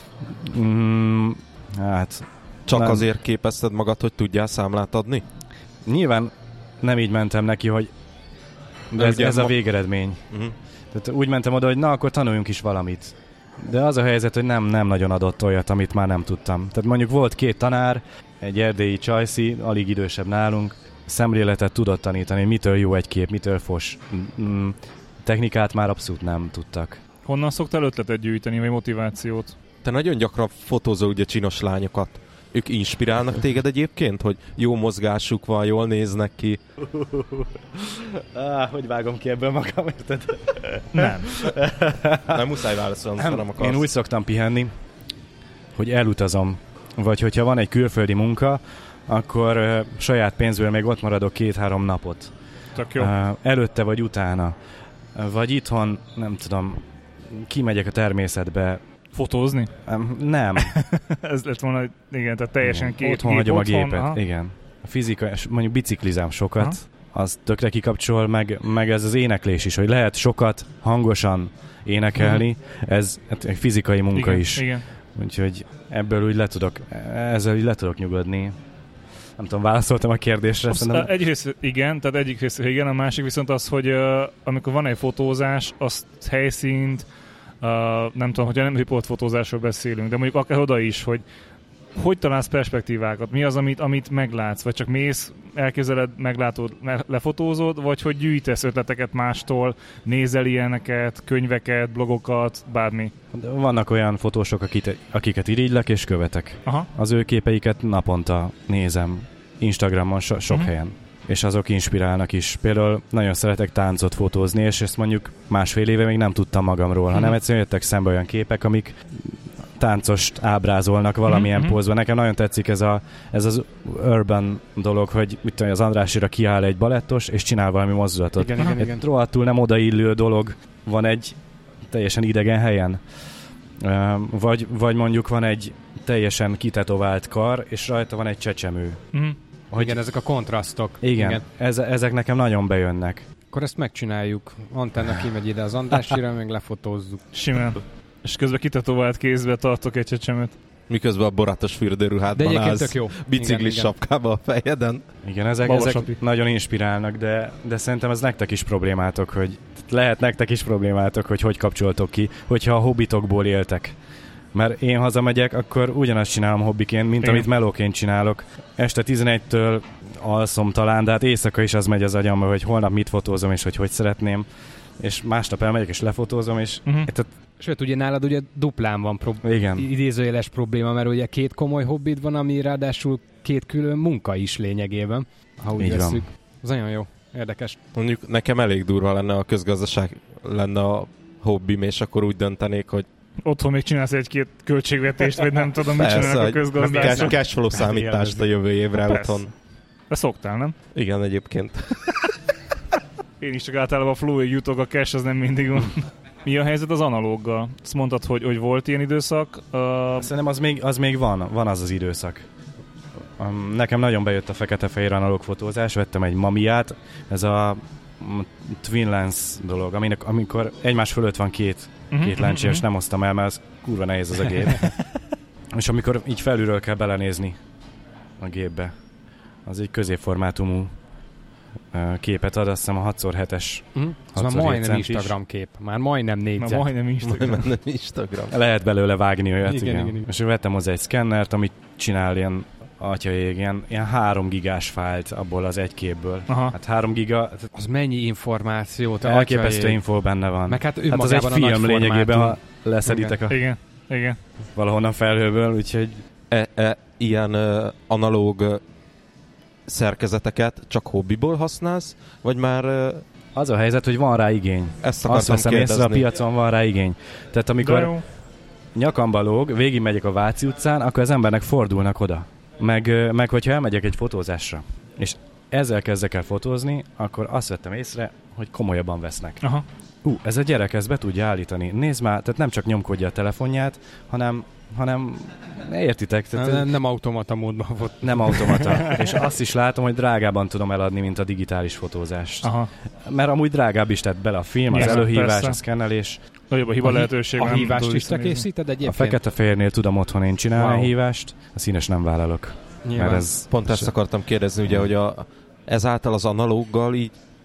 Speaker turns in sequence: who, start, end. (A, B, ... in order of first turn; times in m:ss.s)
0:00.2-0:03.1 A
0:02.7-0:05.2 B
0:05.9-0:07.9 A
0:08.9-0:10.2 A
0:09.0-0:09.6 B
0:10.9-0:27.0 A
0:27.2-0:29.6 C
0:29.8-0:36.6 B
0:36.8-0:42.5 A
0:40.9-0:41.3 C
0:42.3-0:43.8 B
0:43.2-0:44.7 A
0:45.8-0:52.3 A
0:52.8-0:53.1 C
0:53.0-0:54.6 A
0:55.2-0:58.8 A
0:59.1-0:59.7 C
0:59.9-1:00.8 A
1:00.6-1:04.2 C
1:02.6-1:18.6 A
1:14.2-1:14.9 C
1:19.4-1:21.1 A
1:20.7-1:27.1 C
1:27.6-1:31.2 C
1:32.0-1:43.1 C
1:43.3-2:19.0 A
2:01.3-2:01.8 C
2:08.4-2:09.0 D
2:19.7-2:20.0 A
2:19.8-2:21.4 D
2:21.0-2:23.3 A
2:23.5-2:27.3 D
2:27.3-2:30.6 C
2:30.9-2:35.1 B
2:32.4-2:33.9 D
2:35.2-2:44.0 A
2:35.6-2:36.2 C
2:44.5-2:54.5 A
2:47.2-2:47.5 C
2:55.0-2:57.3 A
2:57.6-3:07.8 D
2:59.4-2:59.9 A
3:05.8-3:06.2 A
3:08.0-3:13.1 B
3:13.4-3:17.4 C
3:16.0-3:18.4 D
3:16.0-3:19.5 B
3:19.0-3:19.4 C
3:20.1-3:20.8 C
3:21.0-3:22.1 B
3:23.4-3:30.3 C
3:30.2-3:32.5 A
3:33.4-3:45.0 A
3:42.1-3:42.8 C
3:45.7-3:47.6 A
3:48.4-3:48.9 A
3:49.6-3:50.9 A
3:51.9-3:55.4 A
3:54.0-3:56.9 D
3:56.6-3:57.7 C
3:57.2-3:58.5 B
3:58.5-4:07.7 A
3:59.7-4:00.2 D
4:06.5-4:06.8 C
4:07.7-4:10.0 D
4:09.2-4:13.7 A
4:10.7-4:13.4 D
4:13.5-4:14.4 C
4:14.8-4:16.2 A
4:16.5-4:18.8 B
4:19.9-4:23.2 B
4:23.6-4:28.2 A
4:25.0-4:26.2 B
4:27.8-4:28.2 C
4:28.9-4:39.7 A
4:40.2-4:46.9 A
4:46.6-4:49.4 D
4:48.2-4:56.4 A
4:52.6-4:52.9 C
4:54.9-4:55.8 C
4:55.0-4:55.2 D
4:56.7-4:58.7 C
4:57.0-4:59.4 D
4:59.0-5:04.1 A
5:00.8-5:01.1 D
5:03.0-5:03.5 D
5:03.7-5:07.4 B